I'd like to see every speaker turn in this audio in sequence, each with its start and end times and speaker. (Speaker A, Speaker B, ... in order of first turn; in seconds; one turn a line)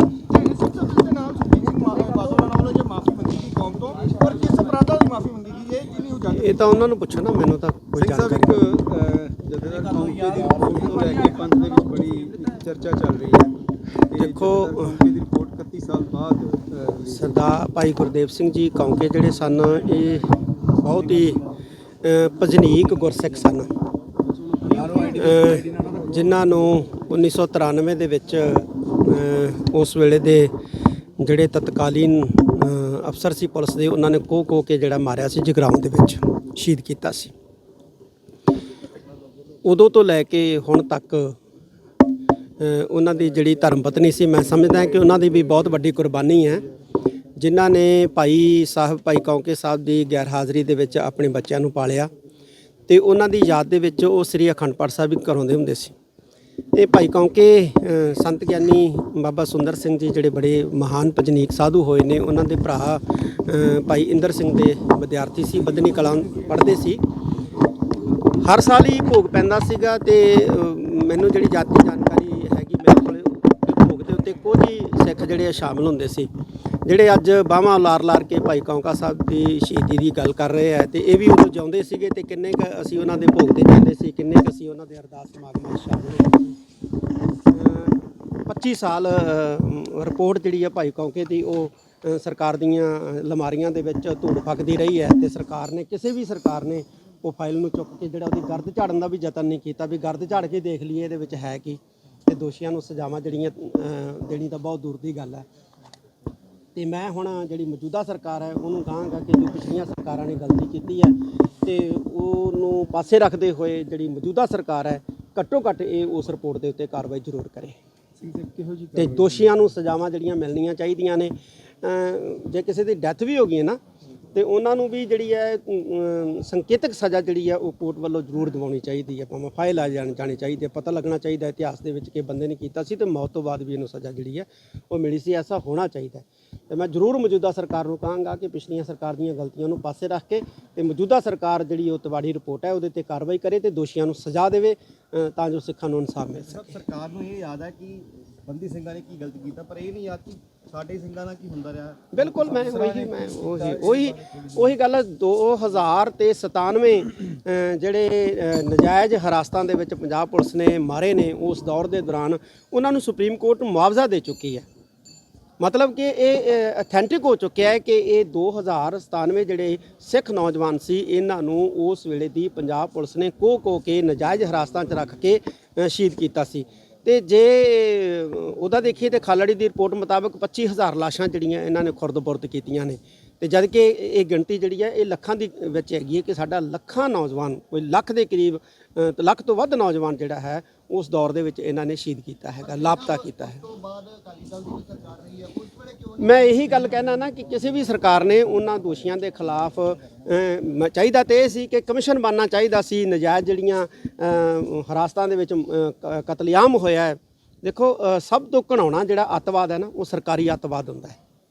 Speaker A: 0.3-6.4
Speaker B: 6.3-8.6
Speaker C: 7.9-13.5
Speaker C: 14.1-17.4
Speaker B: 14.1-15.0
Speaker B: 17.1-21.4
Speaker B: 22.0-23.7
Speaker C: 24.7-26.3
Speaker B: 24.7-30.5
Speaker B: 31.2-37.3
Speaker B: 39.6-41.4
Speaker B: 42.6-46.6
Speaker B: 47.4-52.1
Speaker B: 52.9-55.9
Speaker B: 56.7-67.0
Speaker B: 68.4-76.3
Speaker B: 76.8-86.5
Speaker B: 87.5-105.4
Speaker B: 106.8-117.8
Speaker C: 118.2-119.6
Speaker B: 118.9-123.8
Speaker B: 124.3-146.8
Speaker A: 146.4-152.1
Speaker B: 152.1-164.7
Speaker C: 152.2-154.7
Speaker B: 165.6-193.6
Speaker A: 192.6-196.7
Speaker B: 196.2-211.2